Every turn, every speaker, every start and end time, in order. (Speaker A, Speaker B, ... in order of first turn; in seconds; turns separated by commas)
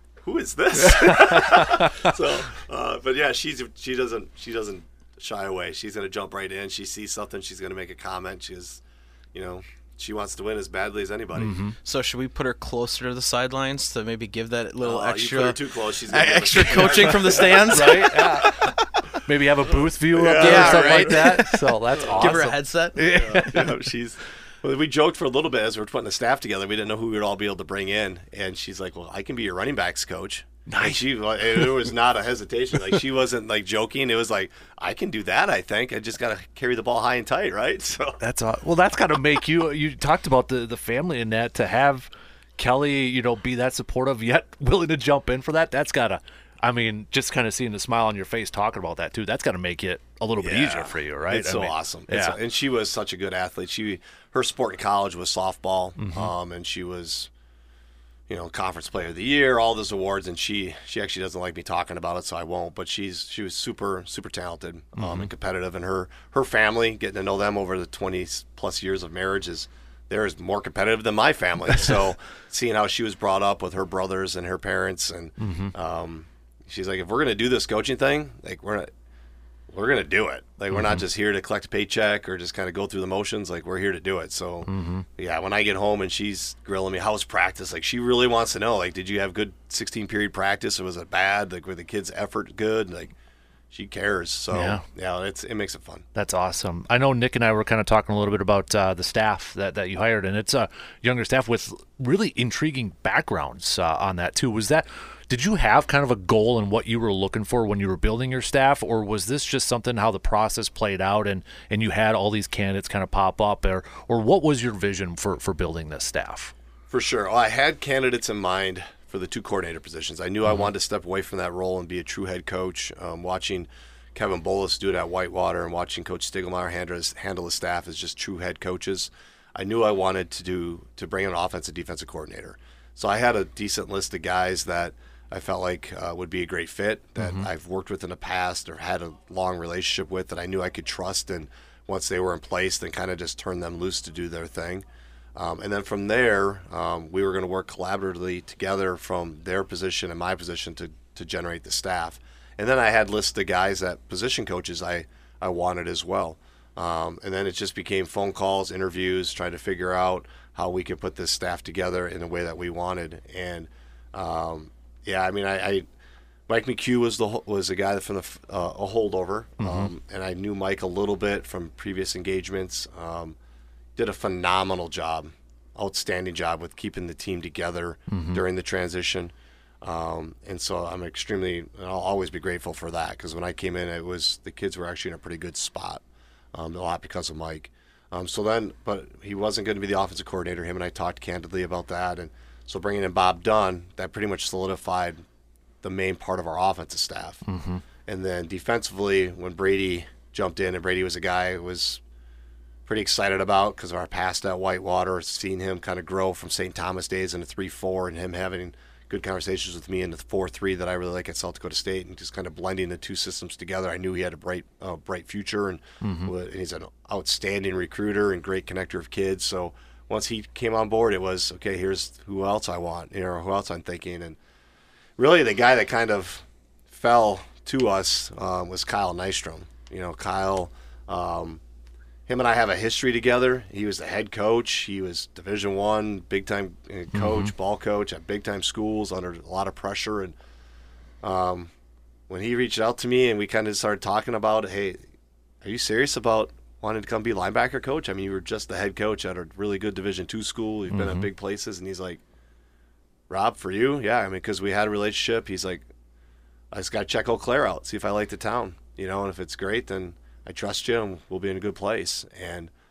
Speaker A: 0.2-8.8, Speaker B: 0.8-2.1, Speaker A: 9.3-11.6, Speaker B: 11.3-11.8, Speaker C: 11.8-18.9, Speaker A: 14.8-18.0, Speaker B: 16.6-23.9, Speaker A: 20.1-21.5, Speaker C: 20.3-23.1, Speaker A: 22.0-22.4, Speaker A: 23.1-38.2, Speaker B: 30.7-31.9, Speaker B: 38.2-52.4, Speaker A: 50.4-57.3, Speaker B: 56.0-56.3, Speaker A: 58.3-78.9, Speaker B: 65.0-65.3, Speaker B: 75.4-75.7, Speaker A: 79.7-93.1, Speaker B: 80.7-81.0, Speaker B: 84.7-85.0, Speaker A: 93.7-96.0, Speaker B: 94.5-94.8, Speaker B: 96.1-116.5, Speaker A: 116.9-144.8, Speaker B: 137.2-137.5, Speaker A: 145.3-165.9, Speaker A: 166.5-173.4, Speaker B: 169.6-169.9, Speaker A: 173.9-186.0, Speaker B: 178.1-178.4, Speaker A: 186.5-195.2, Speaker A: 195.8-197.4, Speaker B: 197.4-197.8, Speaker A: 198.0-202.0, Speaker A: 202.8-224.4, Speaker B: 216.0-216.3, Speaker A: 225.2-231.6, Speaker A: 232.3-240.3, Speaker B: 237.1-237.5, Speaker A: 241.2-241.7, Speaker A: 242.3-245.0, Speaker A: 245.6-252.2, Speaker B: 250.9-251.3, Speaker A: 253.3-255.9, Speaker A: 256.7-262.7